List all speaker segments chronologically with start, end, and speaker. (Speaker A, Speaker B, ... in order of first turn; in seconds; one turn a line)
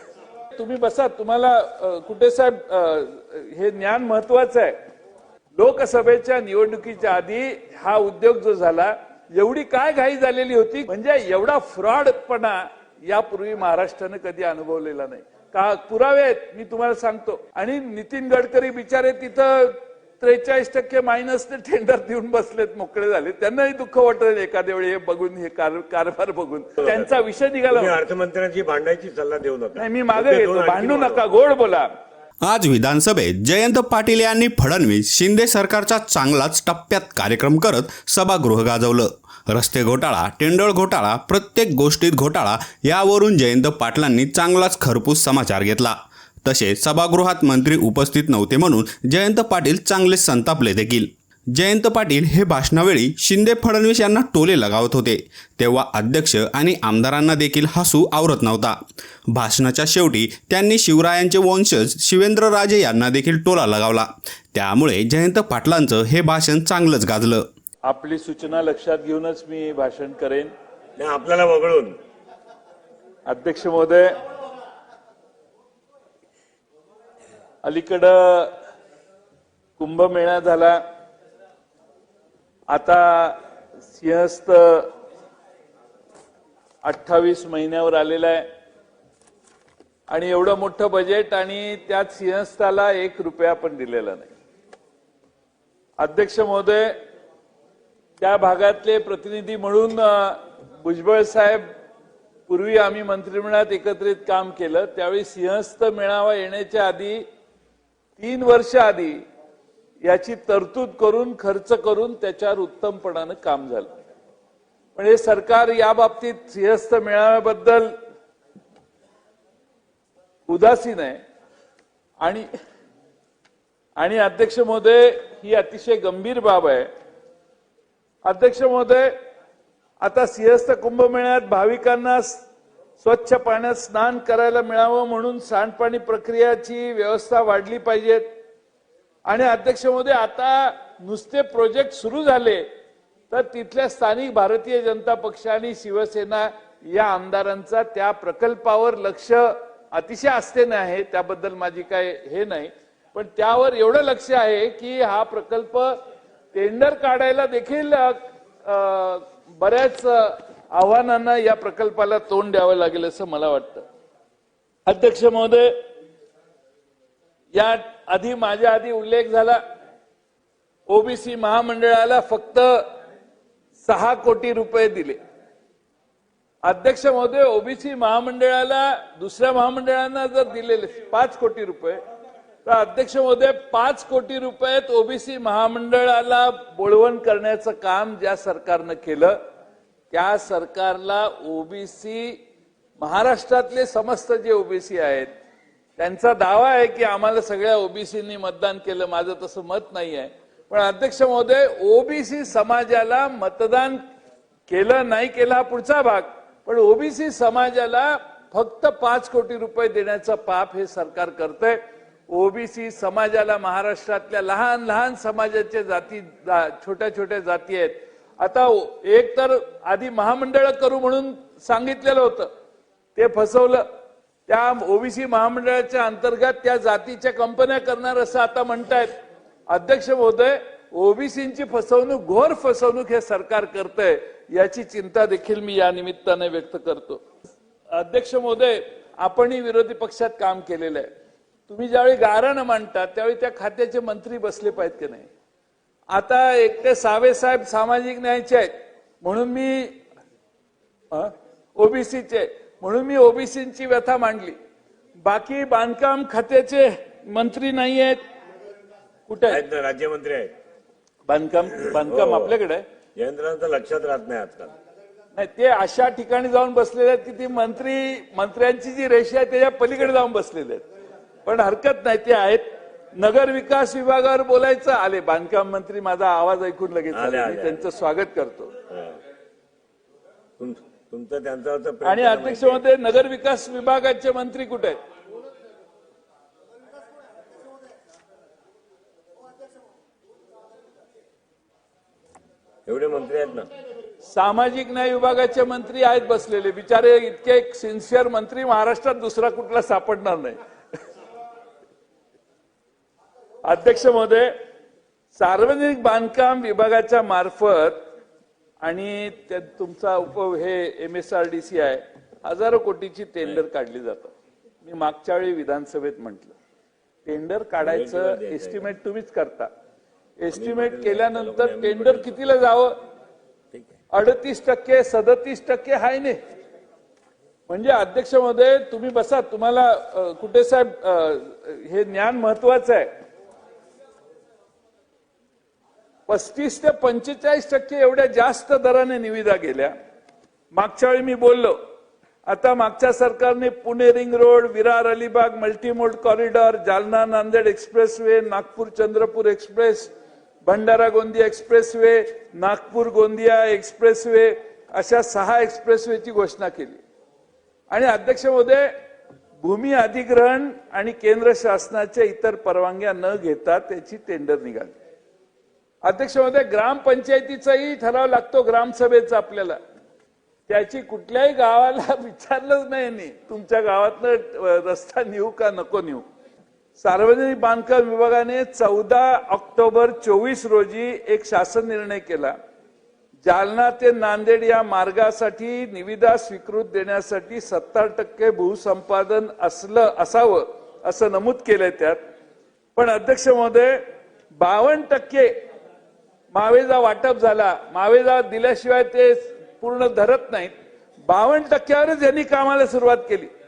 Speaker A: 0.5-4.8
Speaker A: 5.6-28.0
Speaker B: 26.8-27.1
Speaker B: 27.7-31.2
Speaker A: 29.8-31.9
Speaker C: 32.4-58.8
Speaker C: 59.3-67.4
Speaker A: 67.9-70.5
Speaker B: 71.0-72.0
Speaker A: 73.3-74.2
Speaker A: 77.6-78.5
Speaker A: 79.8-80.8
Speaker A: 82.7-83.4
Speaker A: 83.9-84.9
Speaker A: 86.8-88.5
Speaker A: 90.1-94.3
Speaker A: 96.0-96.9
Speaker A: 98.2-101.7
Speaker A: 102.5-107.2
Speaker A: 108.2-109.2
Speaker A: 110.0-113.9
Speaker A: 115.0-117.9
Speaker A: 120.5-121.2
Speaker A: 122.2-122.5
Speaker A: 124.0-126.9
Speaker A: 128.3-129.1
Speaker A: 130.0-132.5
Speaker A: 133.0-138.2
Speaker A: 139.3-142.7
Speaker A: 143.3-156.0
Speaker A: 156.5-163.8
Speaker A: 164.9-165.8
Speaker A: 167.5-169.6
Speaker A: 170.9-172.8
Speaker A: 173.8-175.2
Speaker A: 176.7-182.0
Speaker A: 182.7-189.4
Speaker A: 190.1-192.4
Speaker A: 193.0-195.3
Speaker A: 196.0-204.0
Speaker A: 204.7-222.5
Speaker A: 223.2-223.8
Speaker A: 224.5-229.2
Speaker A: 229.7-237.2
Speaker A: 237.9-241.1
Speaker A: 241.7-245.3
Speaker A: 246.1-250.0
Speaker A: 251.1-254.6
Speaker A: 255.2-258.2
Speaker A: 259.3-259.6
Speaker B: 259.5-260.5
Speaker A: 261.3-262.8
Speaker B: 262.0-262.5
Speaker B: 263.2-264.7
Speaker A: 265.4-270.9
Speaker A: 271.4-272.6
Speaker A: 273.2-278.8
Speaker B: 277.1-277.8
Speaker B: 280.6-282.8
Speaker A: 282.1-285.0
Speaker B: 292.9-293.7
Speaker A: 294.2-300.6
Speaker A: 303.6-304.5
Speaker A: 305.4-308.0
Speaker A: 308.8-314.3
Speaker A: 314.8-316.6
Speaker A: 317.2-319.7
Speaker B: 317.8-318.9
Speaker A: 320.4-323.0
Speaker B: 320.5-322.6
Speaker A: 324.1-326.4
Speaker A: 327.7-333.1
Speaker A: 336.3-339.9
Speaker A: 340.7-341.8
Speaker A: 342.5-350.1
Speaker A: 350.7-357.0
Speaker A: 357.9-358.9
Speaker A: 359.6-365.0
Speaker A: 366.0-369.8
Speaker A: 370.7-376.2
Speaker A: 377.0-382.6
Speaker A: 383.4-392.2
Speaker A: 393.0-394.0
Speaker A: 394.6-395.5
Speaker A: 396.5-400.7
Speaker A: 401.3-403.5